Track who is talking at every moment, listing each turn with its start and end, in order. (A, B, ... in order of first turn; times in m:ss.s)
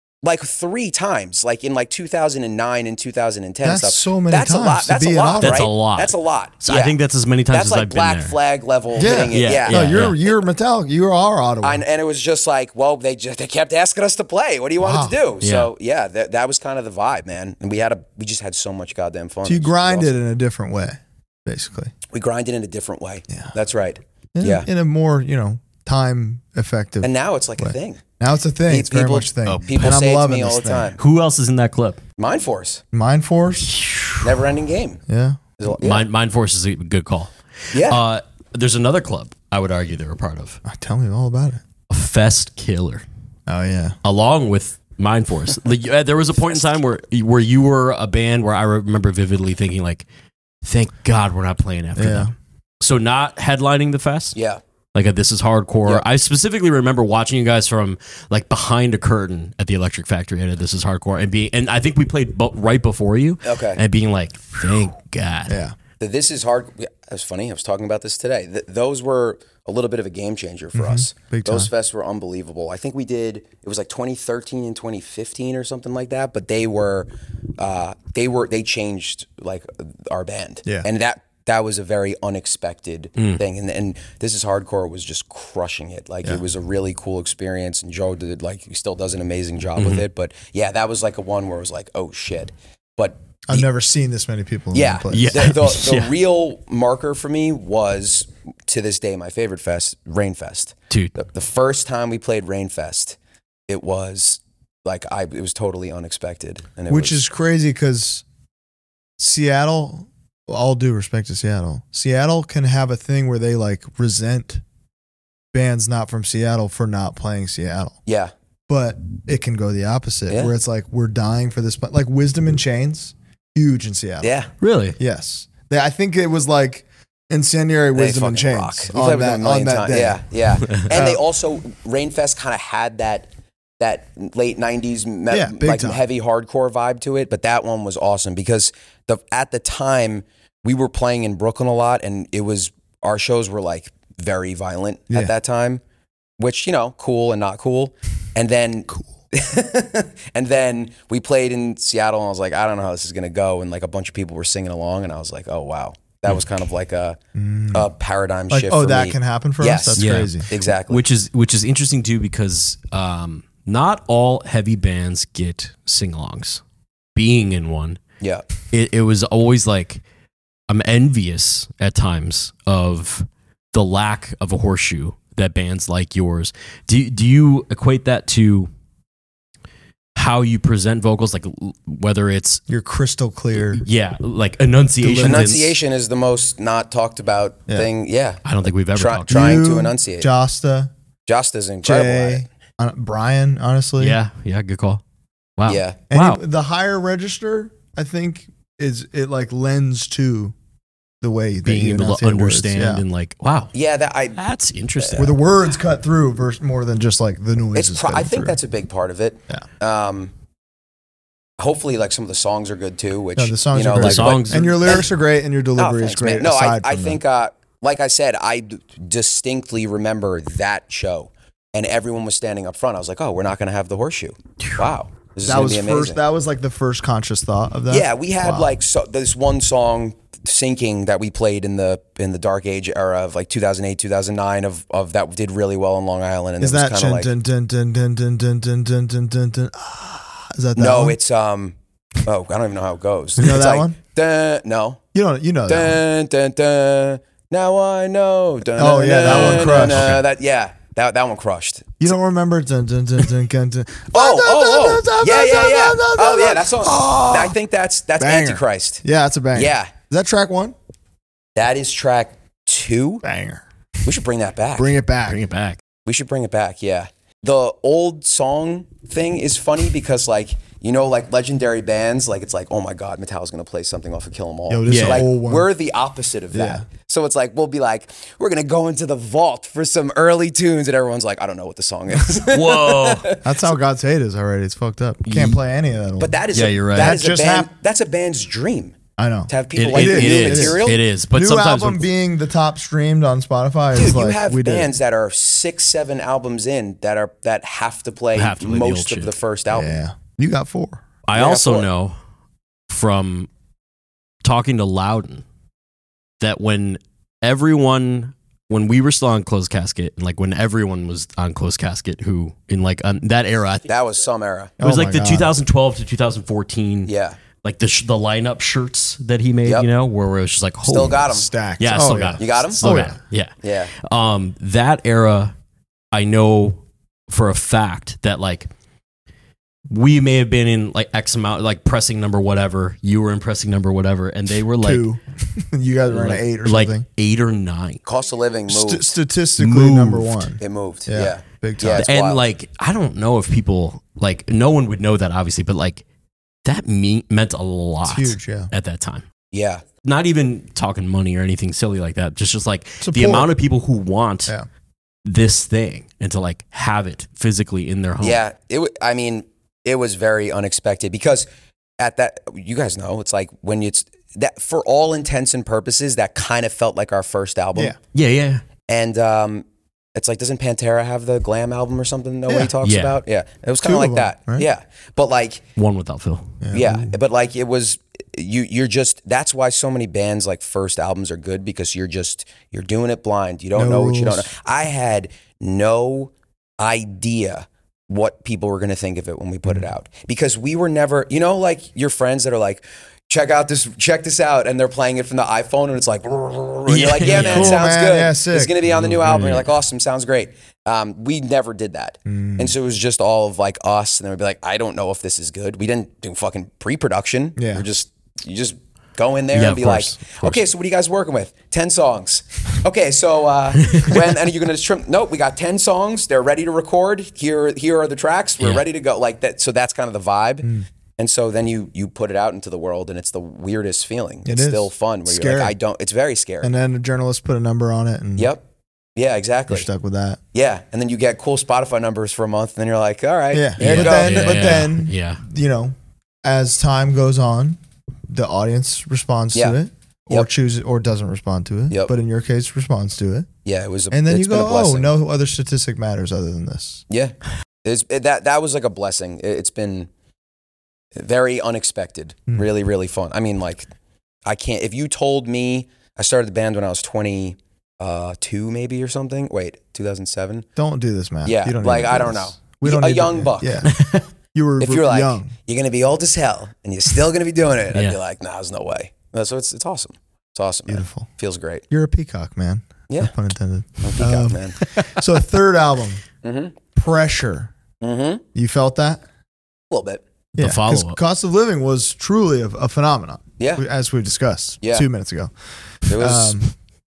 0:00.2-0:07.0 A
0:03.6-0:05.7 B
0:05.4-0:08.4 C
0:07.5-0:10.4 A
0:09.0-0:11.8 B
0:09.3-0:10.2 C
0:11.6-0:20.1 A
0:14.8-0:15.2 B
0:15.4-0:15.7 C
0:19.4-0:21.9 B
0:22.1-0:24.7 A
0:23.3-0:23.5 B
0:24.3-0:31.0 B
0:27.0-0:28.0 A
0:28.7-0:31.0 A
0:29.5-0:30.0 C
0:31.0-0:32.0 C
0:32.2-0:32.8 A
0:32.9-0:33.8 B
0:33.7-0:34.2 C
0:34.2-0:35.0 A
0:35.1-0:35.4 B
0:35.6-0:36.0 A
0:35.8-0:40.6 C
0:37.7-0:38.0 A
0:40.6-0:41.6 B
0:41.9-0:43.0 C
0:43.5-0:44.0 B
0:44.0-0:50.1 C
0:50.6-0:54.4 C
0:52.0-0:52.3 B
0:54.4-0:54.6 A
0:54.9-1:05.6 C
1:03.4-1:03.8 A
1:05.5-1:05.8 B
1:06.0-1:33.7 A
1:10.7-1:11.7 B
1:29.8-1:30.0 C
1:33.5-1:35.5 B
1:34.7-1:47.2 A
1:35.1-1:36.1 C
1:40.9-1:41.2 C
1:46.9-1:48.2 B
1:49.2-1:54.6 B
1:55.5-1:58.0 B
1:58.1-1:58.3 A
1:58.7-2:04.3 B
2:04.2-2:04.5 A
2:04.6-2:05.0 C
2:05.0-2:10.2 B
2:08.0-2:13.3 A
2:10.8-2:11.2 B
2:13.8-2:25.8 A
2:15.3-2:16.0 B
2:26.4-2:37.2 A
2:37.4-2:37.9 B
2:37.7-2:41.0 A
2:38.5-2:40.5 B
2:40.0-2:46.6 C
2:47.2-2:48.0 C
2:48.2-2:48.5 A
2:48.7-2:50.0 C
2:50.7-2:58.7 C
3:00.2-3:02.6 C
3:02.7-3:03.8 B
3:03.6-3:05.8 C
3:05.0-3:05.6 B
3:05.2-3:08.4 A
3:08.4-3:09.6 C
3:09.0-3:10.3 A
3:09.3-3:10.9 B
3:11.3-3:12.5 A
3:11.8-3:14.2 B
3:14.0-3:15.0 C
3:15.6-3:16.4 C
3:15.7-3:16.0 A
3:16.1-3:20.5 B
3:21.2-3:23.0 B
3:21.6-3:23.7 C
3:23.7-3:24.4 A
3:24.4-3:25.4 C
3:25.2-3:28.6 B
3:27.8-3:30.3 A
3:31.6-3:35.1 A
3:33.4-3:37.2 B
3:33.9-3:35.0 C
3:35.8-3:46.2 A
3:45.4-3:48.7 B
3:47.9-3:57.3 A
3:56.6-4:01.2 B
4:00.8-4:05.0 A
4:03.4-4:04.0 B
4:05.1-4:06.0 B
4:05.7-4:12.1 A
4:08.8-4:10.2 B
4:09.3-4:10.2 C
4:12.0-4:17.6 B
4:14.1-4:19.0 A
4:18.2-4:20.8 B
4:19.5-4:19.9 A
4:21.6-4:23.2 A
4:23.2-4:23.6 B
4:24.0-4:25.0 A
4:24.8-4:25.4 B
4:25.3-4:25.8 C
4:26.0-4:43.6 A
4:34.7-4:35.7 B
4:34.9-4:35.3 C
4:36.5-4:36.9 B
4:42.3-4:43.3 C
4:43.4-4:46.4 B
4:45.2-4:45.6 C
4:46.2-4:49.0 A
4:46.5-4:47.2 C
4:46.9-4:47.7 B
4:49.2-4:54.9 B
4:49.5-4:51.0 A
4:49.8-4:52.1 C
4:53.9-5:00.0 A
4:58.4-4:59.3 C
4:59.7-5:01.0 B
5:01.3-5:02.2 C
5:01.4-5:01.9 A
5:02.9-5:03.5 C
5:04.4-5:05.4 C
5:06.4-5:13.9 C
5:13.9-5:14.7 A
5:14.8-5:15.6 B
5:14.8-5:17.1 C
5:17.1-5:17.4 A
5:17.6-5:25.5 C
5:20.8-5:21.5 A
5:21.3-5:23.2 B
5:22.4-5:22.8 A
5:23.6-5:23.9 A
5:26.1-5:28.7 C
5:29.9-5:35.0 C
5:34.8-5:37.1 B
5:36.1-5:38.0 C
5:38.0-5:39.1 A
5:38.7-5:42.1 B
5:39.6-5:40.5 C
5:40.6-5:42.4 A
5:42.0-5:46.0 C
5:46.6-5:49.2 C
5:48.0-5:48.7 B
5:49.5-5:49.8 A
5:50.0-5:54.5 C
5:53.0-5:53.5 B
5:55.2-5:58.4 C
5:58.2-6:01.5 A
6:02.0-6:08.0 A
6:08.1-6:08.6 C
6:08.9-6:15.6 A
6:12.5-6:12.7 B
6:12.8-6:13.2 C
6:13.8-6:14.7 B
6:15.8-6:16.6 C
6:16.6-6:17.1 B
6:16.7-7:06.7 A
6:23.8-6:24.5 B
6:36.9-6:37.8 C
6:37.3-6:38.8 B
6:38.9-6:39.7 C
6:42.3-6:42.7 B
6:47.6-6:47.9 B
6:49.5-6:50.6 C
6:53.8-6:54.2 C
7:04.4-7:05.7 B
7:06.6-7:08.5 B
7:08.4-7:08.6 A
7:09.2-7:09.9 A
7:09.7-7:10.4 B
7:10.5-7:14.8 A
7:13.5-7:17.8 B
7:13.8-7:15.4 C
7:18.3-7:23.5 B
7:19.5-7:20.5 A
7:23.6-7:25.1 A
7:24.1-7:27.0 B
7:27.1-7:30.1 A
7:31.2-7:33.9 A
7:34.4-7:40.7 A
7:40.8-7:44.0 B
7:41.4-7:43.9 A
7:43.9-7:44.2 C
7:44.5-7:45.5 B
7:44.8-7:51.8 A
7:50.9-7:51.3 B
7:51.9-7:56.2 B
7:54.0-7:54.8 A
7:56.4-7:56.8 A
7:57.0-7:57.7 B
7:58.0-7:58.4 A
7:58.6-7:59.2 B
7:59.9-8:00.2 A
8:00.6-8:05.5 B
8:00.6-8:01.2 C
8:03.6-8:03.8 A
8:04.8-8:05.1 A
8:06.0-8:06.7 B
8:06.1-8:06.6 A